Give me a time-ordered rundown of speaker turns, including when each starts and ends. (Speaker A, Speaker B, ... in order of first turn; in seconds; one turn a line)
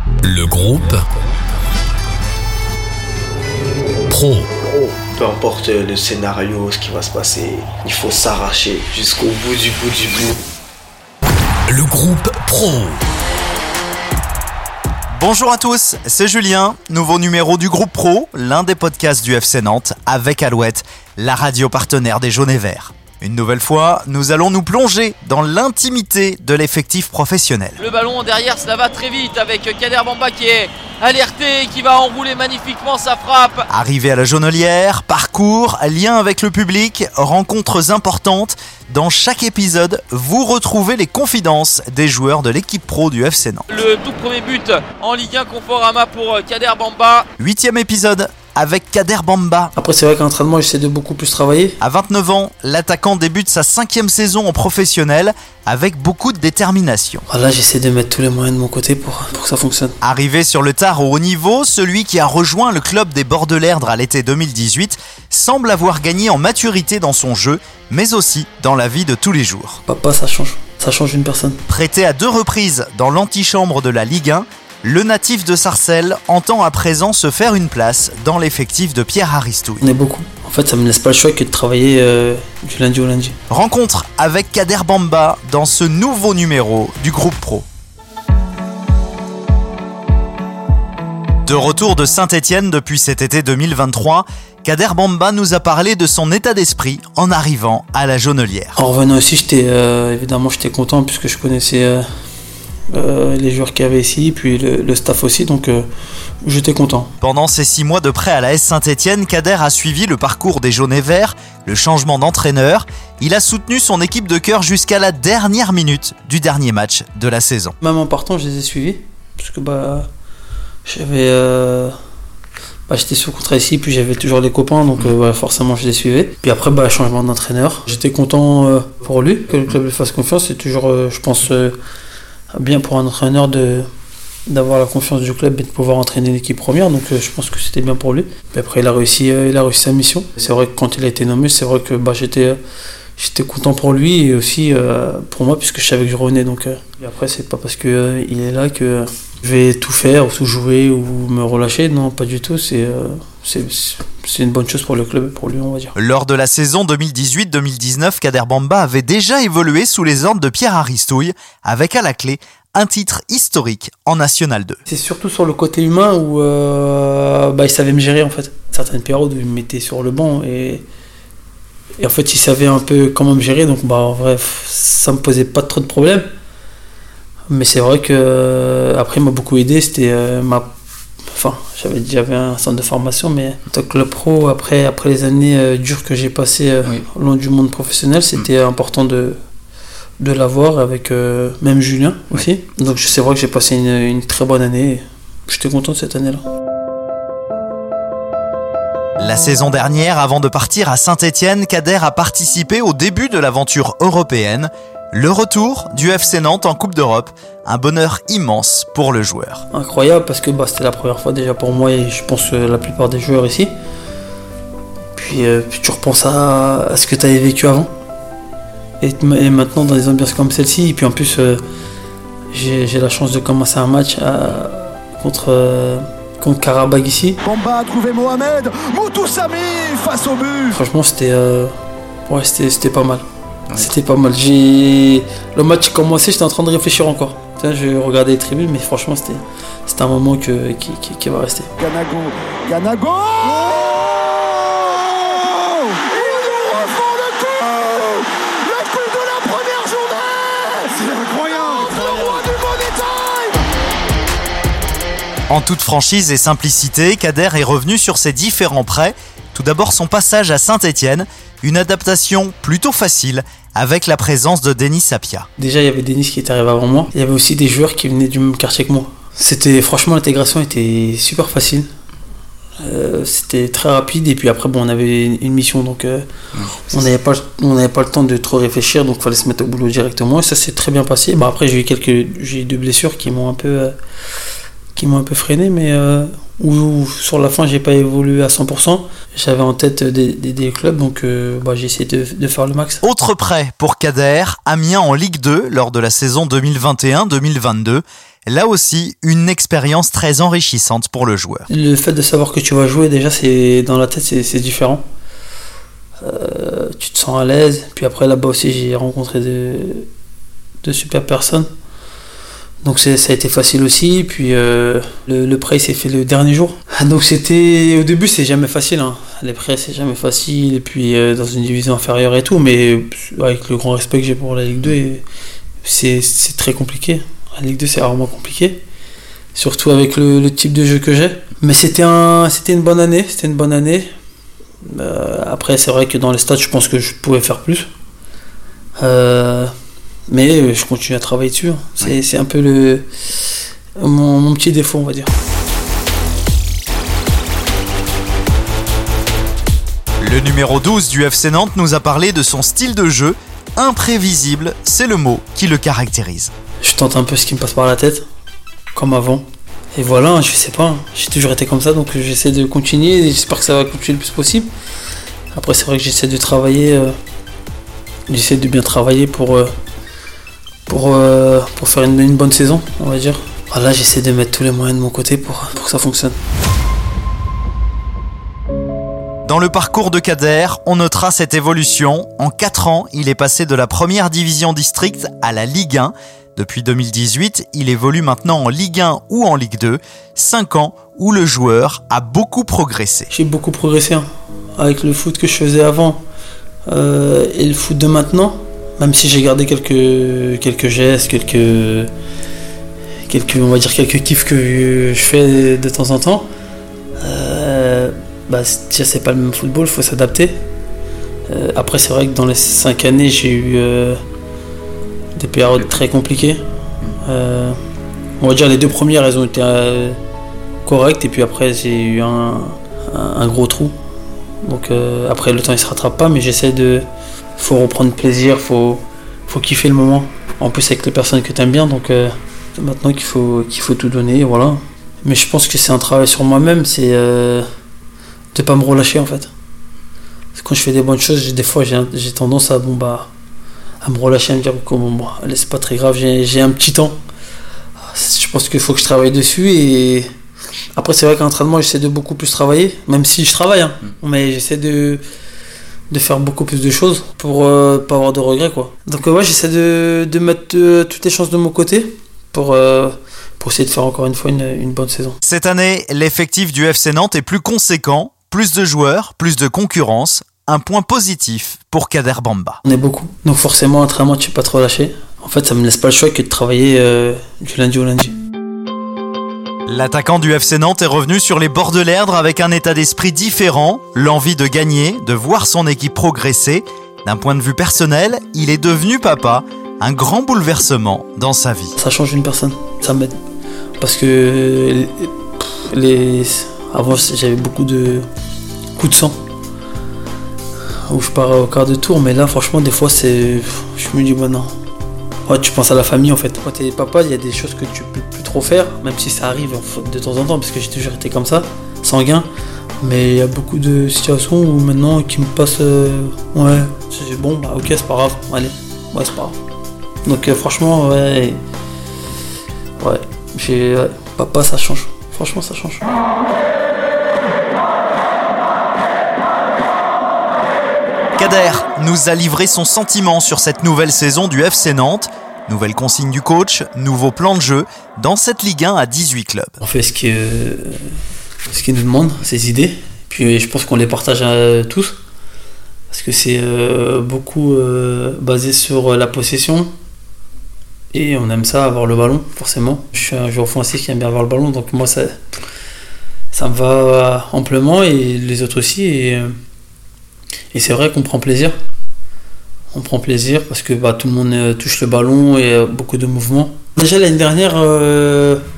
Speaker A: 0.3-0.8
Speaker A: 4.1-4.5
Speaker B: 4.7-10.3
Speaker A: 11.7-12.9
Speaker C: 15.2-27.8
Speaker D: 27.8-33.6
Speaker C: 33.7-43.7
Speaker D: 43.7-47.3
Speaker C: 47.4-49.7
Speaker E: 49.8-51.8
Speaker C: 51.8-57.2
Speaker E: 57.3-60.0
Speaker C: 60.0-69.8
Speaker E: 69.8-71.6
Speaker C: 71.7-79.8
Speaker E: 79.8-83.4
Speaker C: 83.5-87.7
Speaker C: 91.5-98.8
Speaker E: 98.8-102.0
Speaker E: 102.9-105.9
Speaker E: 106.4-107.1
Speaker C: 107.2-117.7
Speaker E: 117.8-120.1
Speaker E: 120.8-121.9
Speaker E: 122.9-131.7
Speaker E: 132.5-133.8
Speaker E: 134.5-142.6
Speaker E: 143.2-155.9
Speaker C: 155.9-164.8
Speaker E: 164.9-170.8
Speaker E: 172.0-176.2
Speaker E: 177.5-180.7
Speaker E: 181.3-189.4
Speaker E: 190.2-196.4
Speaker C: 199.2-209.6
Speaker E: 209.7-213.7
Speaker E: 215.2-217.9
Speaker E: 219.0-221.6
Speaker E: 222.5-227.4
Speaker F: 227.4-230.7
Speaker E: 230.7-231.7
Speaker E: 232.3-241.7
Speaker F: 241.8-253.6
Speaker C: 255.5-265.5
Speaker E: 265.6-271.9
Speaker E: 272.8-276.2
Speaker E: 276.8-283.9
Speaker E: 284.9-293.0
Speaker C: 293.0-301.7
Speaker E: 301.7-305.0
Speaker E: 306.2-310.1
Speaker E: 310.8-311.7
Speaker E: 312.8-325.2
Speaker E: 325.8-328.8
Speaker E: 329.5-334.1
Speaker E: 334.8-337.9
Speaker E: 339.0-339.7
Speaker E: 340.3-343.1
Speaker E: 344.0-345.3
Speaker C: 350.2-356.5
Speaker E: 356.8-358.2
Speaker E: 358.9-364.7
Speaker E: 365.5-367.1
Speaker E: 368.3-369.7
Speaker E: 370.9-376.4
Speaker C: 379.4-393.3
Speaker E: 393.3-396.2
Speaker E: 396.9-402.1
Speaker E: 403.3-406.4
Speaker E: 407.2-410.6
Speaker E: 411.5-414.2
Speaker E: 415.3-417.8
Speaker E: 418.4-420.2
Speaker E: 420.8-423.9
Speaker E: 424.6-437.7
Speaker E: 438.5-439.5
Speaker E: 440.5-443.3
Speaker E: 444.0-447.2
Speaker E: 448.1-450.3
Speaker E: 450.9-455.2
Speaker E: 456.1-465.4
Speaker C: 465.4-472.8
Speaker E: 472.8-478.4
Speaker C: 479.9-491.9
Speaker E: 492.0-493.4
Speaker E: 494.0-498.2
Speaker E: 499.0-499.4
Speaker E: 501.1-504.7
Speaker E: 505.4-512.5
Speaker E: 513.0-519.6
Speaker E: 520.2-521.6
Speaker E: 523.0-526.1
Speaker C: 531.4-539.8
Speaker E: 539.8-541.1
Speaker E: 541.7-545.1
Speaker E: 546.1-549.9
Speaker E: 551.1-555.4
Speaker E: 556.5-559.5
Speaker E: 560.7-561.7
Speaker E: 562.9-568.6